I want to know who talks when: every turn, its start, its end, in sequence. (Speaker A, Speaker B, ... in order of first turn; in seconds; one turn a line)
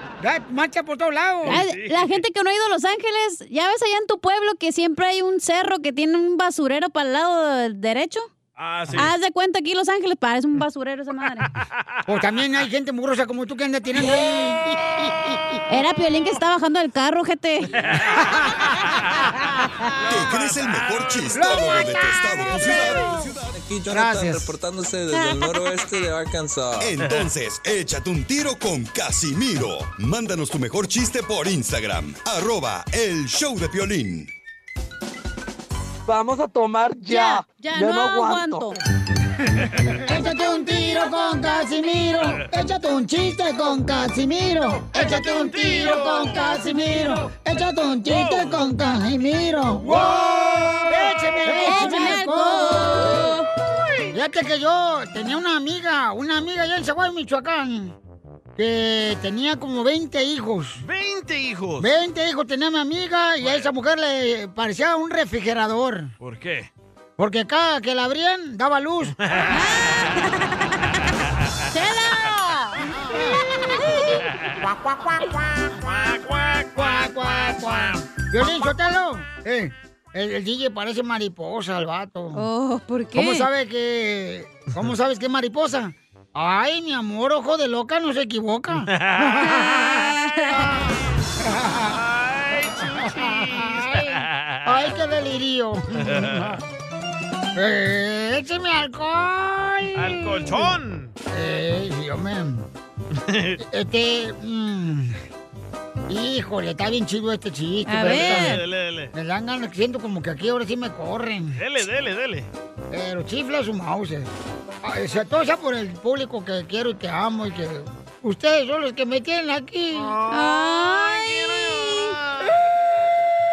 Speaker A: 0.2-1.6
Speaker B: 1.4-2.2
Speaker C: 1.5-8.3
Speaker B: 8.6-9.1
Speaker C: 8.9-11.5
Speaker B: 11.7-12.0
Speaker A: 12.1-15.1
Speaker C: 15.7-17.8
Speaker B: 17.8-18.2
Speaker B: 19.9-21.8
Speaker D: 20.1-23.6
Speaker A: 21.3-23.3
Speaker A: 23.9-24.6
Speaker C: 25.1-25.6
Speaker E: 25.9-26.8
Speaker D: 26.8-34.3
Speaker E: 36.1-38.8
Speaker C: 37.0-38.8
Speaker A: 40.0-53.4
Speaker C: 40.4-42.1
Speaker B: 44.8-47.3
Speaker C: 45.1-46.8
Speaker B: 48.0-48.6
Speaker B: 49.9-50.8
Speaker C: 51.5-53.5
Speaker B: 53.7-54.1
Speaker A: 54.1-58.0
Speaker A: 58.6-60.8
Speaker B: 60.8-61.9
Speaker A: 61.8-66.1
Speaker B: 63.4-63.7
Speaker B: 66.2-66.7
Speaker A: 67.2-69.2
Speaker B: 69.2-70.1
Speaker C: 69.5-70.5
Speaker C: 71.7-72.8
Speaker C: 73.8-74.1
Speaker B: 75.8-78.0
Speaker A: 76.8-82.5
Speaker C: 82.3-83.5
Speaker A: 83.1-92.0
Speaker B: 88.9-89.5
Speaker C: 90.1-90.5
Speaker B: 91.9-94.7
Speaker A: 92.8-96.6
Speaker B: 96.0-96.6
Speaker A: 97.5-100.7
Speaker B: 100.0-101.1
Speaker A: 101.3-102.7
Speaker B: 103.2-103.6
Speaker A: 103.6-105.2
Speaker A: 106.1-108.6
Speaker C: 107.9-108.6
Speaker B: 108.0-109.1
Speaker A: 109.1-111.6
Speaker B: 111.6-112.5
Speaker A: 112.9-114.3
Speaker A: 114.8-120.2
Speaker B: 119.9-122.6
Speaker C: 120.3-122.1